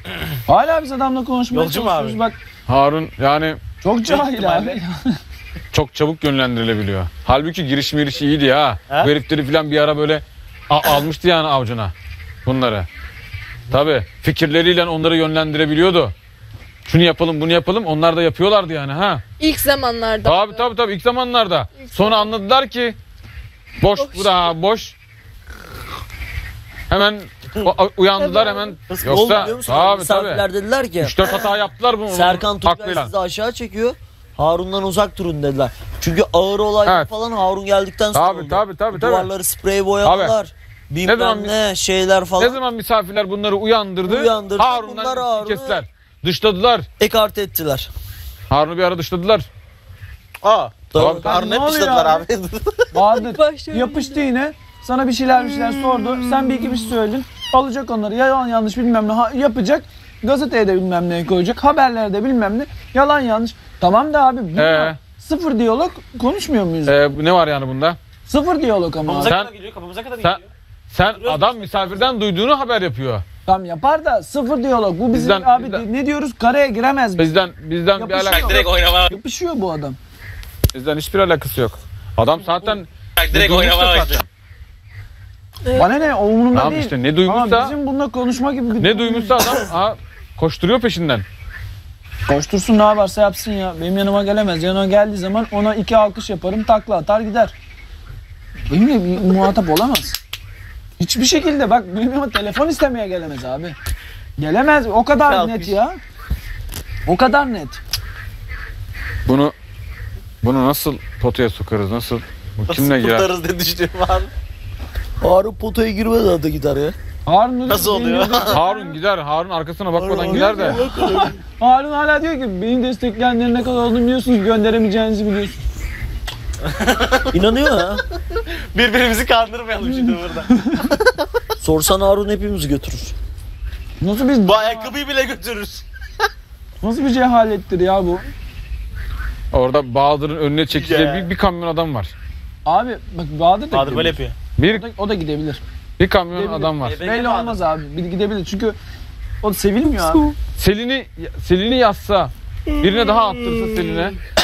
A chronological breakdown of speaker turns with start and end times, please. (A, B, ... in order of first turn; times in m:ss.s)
0:00.5-0:02.4 A
0:01.5-0:02.2 B
0:02.7-0:03.6 C
0:03.8-0:05.2 A
0:04.0-0:04.8 B
0:05.7-0:11.9 C
0:12.4-0:12.9 C
0:13.7-0:16.1 C
0:16.8-0:19.2 C
0:19.4-0:20.7 D
0:20.2-0:23.0 C
0:21.8-0:22.3 D
0:23.8-0:24.9 C
0:24.0-0:24.5 D
0:26.9-0:30.4 C
0:28.2-0:28.8 D
0:28.9-0:31.4 E
0:31.0-0:33.1 C
0:32.1-0:42.6 E
0:36.8-0:37.1 C
0:38.1-0:39.3 C
0:40.0-0:40.4 C
0:41.0-0:41.6 C
0:42.4-0:46.8 C
0:44.0-0:45.8 E
0:47.0-0:47.9 E
0:48.5-0:49.5 C
0:50.4-0:52.8 B
0:50.9-0:51.3 E
0:51.0-0:51.2 C
0:51.2-0:52.2 A
0:52.9-1:07.0 A
0:53.1-0:54.3 D
0:55.3-0:56.8 D
1:04.5-1:05.0 C
1:06.8-1:08.0 C
1:08.3-1:09.4 A
1:09.0-1:10.5 B
1:09.2-1:09.5 C
1:10.9-1:13.2 C
1:11.1-1:12.1 B
1:13.4-1:17.4 A
1:15.1-1:15.8 C
1:17.2-1:18.6 C
1:18.0-1:20.0 A
1:18.1-1:19.1 B
1:20.7-1:24.2 C
1:23.2-1:24.2 B
1:25.7-1:29.4 A
1:26.5-1:27.7 C
1:28.8-1:31.2 C
1:32.3-1:37.5 A
1:38.7-1:40.2 A
1:41.0-1:43.7 A
1:44.4-1:46.0 A
1:45.2-1:45.8 B
1:47.0-1:47.8 A
1:49.2-1:49.5 C
1:50.4-1:53.3 C
1:52.6-1:54.3 B
1:55.2-1:56.9 E
1:57.3-1:58.9 A
1:57.7-1:58.6 B
1:58.5-2:00.8 C
2:00.0-2:01.3 B
2:00.1-2:01.0 E
2:00.3-2:05.6 A
2:06.8-2:07.3 B
2:07.3-2:08.0 E
2:08.7-2:10.5 B
2:10.6-2:10.8 A
2:11.6-2:13.1 E
2:14.0-2:14.9 A
2:14.4-2:15.8 B
2:16.8-2:18.3 A
2:19.5-2:22.1 C
2:20.7-2:21.3 B
2:22.6-2:25.6 A
2:23.7-2:24.4 B
2:24.6-2:24.8 C
2:26.0-2:27.0 C
2:26.3-2:28.8 A
2:26.8-2:27.6 B
2:29.4-2:30.2 A
2:29.8-2:30.4 D
2:30.6-2:34.2 C
2:32.7-2:33.8 D